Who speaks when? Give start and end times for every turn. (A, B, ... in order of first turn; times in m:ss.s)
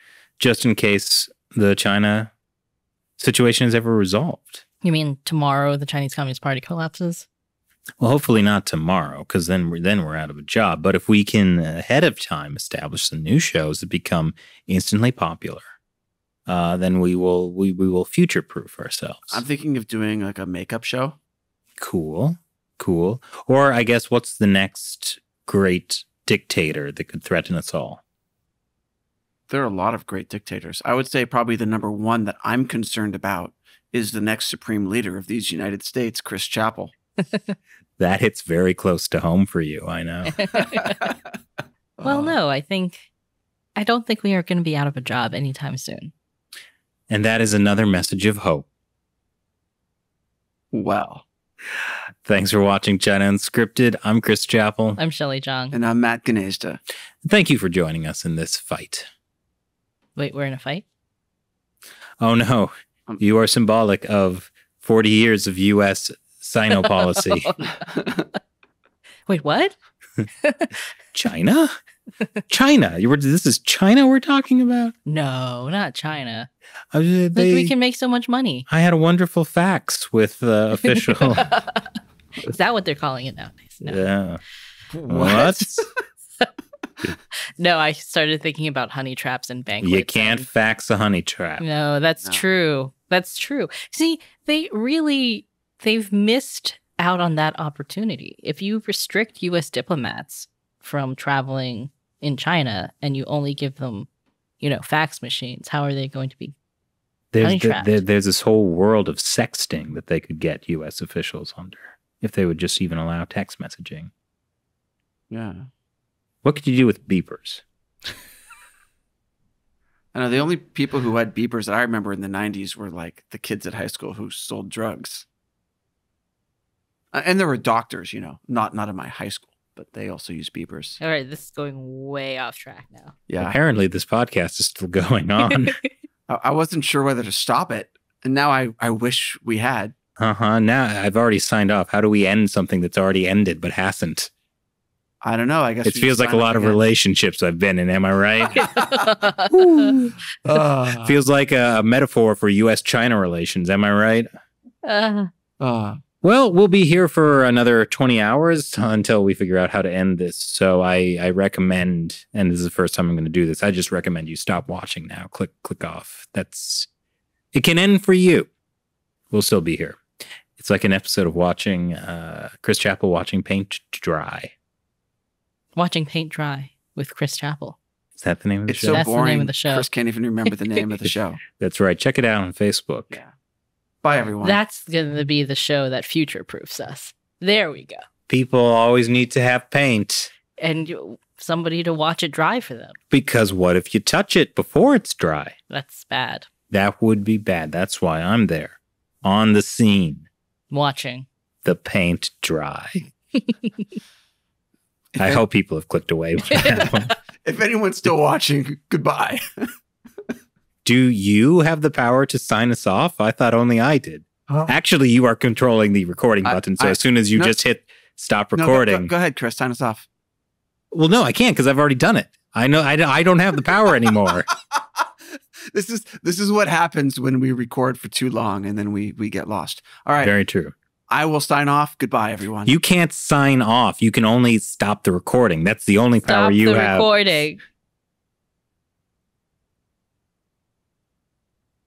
0:00.4-0:02.3 A
0:03.2-0:04.6 A
0:04.8-0:07.3 B
0:08.0-0:15.6 A
0:16.5-0:19.4 A
0:19.3-0:21.2 C
0:21.8-0:28.0 A
0:29.5-0:36.9 C
0:38.0-0:40.6 A
0:40.4-0:41.0 B
0:40.8-0:41.1 C
0:42.0-0:42.4 C
0:42.0-0:43.0 B
0:43.8-0:46.1 B
0:47.1-0:48.6 A
0:50.7-0:51.2 C
0:52.2-0:55.0 A
0:55.0-0:55.8 B
0:55.7-0:56.8 C
0:57.2-0:59.1 A
1:00.2-1:00.8 B
1:02.2-1:07.5 A
1:06.7-1:07.8 B
1:07.9-1:08.2 C
1:09.3-1:09.7 B
1:10.4-1:10.8 B
1:11.1-1:11.8 A
1:12.5-1:14.9 A
1:15.0-1:16.5 B
1:16.9-1:17.7 A
1:17.3-1:18.7 B
1:18.7-1:21.5 A
1:21.0-1:21.8 B
1:22.4-1:24.1 B
1:23.8-1:24.4 A
1:24.9-1:25.9 C
1:25.1-1:25.8 A
1:27.6-1:30.5 B
1:29.8-1:31.6 A
1:31.6-1:44.1 B
1:44.6-1:46.6 B
1:47.3-1:54.1 A
1:47.4-1:48.0 B
1:55.3-1:55.7 C
1:56.4-1:57.6 A
2:00.1-2:05.2 C
2:07.1-2:11.0 C
2:11.0-2:13.2 B
2:13.3-2:13.6 C
2:13.4-2:15.8 A
2:16.3-2:19.9 C
2:20.2-2:24.3 A
2:25.2-2:26.8 C
2:25.8-2:28.8 A
2:28.5-2:28.9 C
2:28.5-2:30.0 B
2:29.6-2:30.1 A
2:30.4-2:31.2 C
2:31.0-2:34.3 A
2:34.8-2:35.3 B
2:35.6-2:36.0 C
2:36.2-2:46.9 A
2:47.5-2:48.5 A
2:49.3-2:54.5 A
2:55.8-2:57.8 B
2:58.2-2:59.0 A
2:58.7-3:01.4 C
2:58.9-2:59.8 B
3:01.6-3:03.2 A
3:04.0-3:04.6 C
3:04.4-3:08.0 B
3:08.3-3:10.3 A
3:10.6-3:13.0 B
3:13.1-3:15.5 A
3:15.7-3:16.5 B
3:16.7-3:20.3 A
3:20.7-3:21.3 B
3:21.6-3:23.1 A
3:25.1-3:25.4 C
3:25.2-3:27.1 A
3:26.5-3:26.9 C
3:27.4-3:29.7 C
3:30.8-3:39.1 A
3:36.4-3:37.5 C
3:38.6-3:40.0 C
3:40.9-3:44.5 A
3:44.7-3:45.0 C
3:45.7-3:50.3 C
3:50.2-3:50.7 A
3:51.1-3:52.7 C
3:52.6-3:57.4 A
3:56.2-3:57.6 B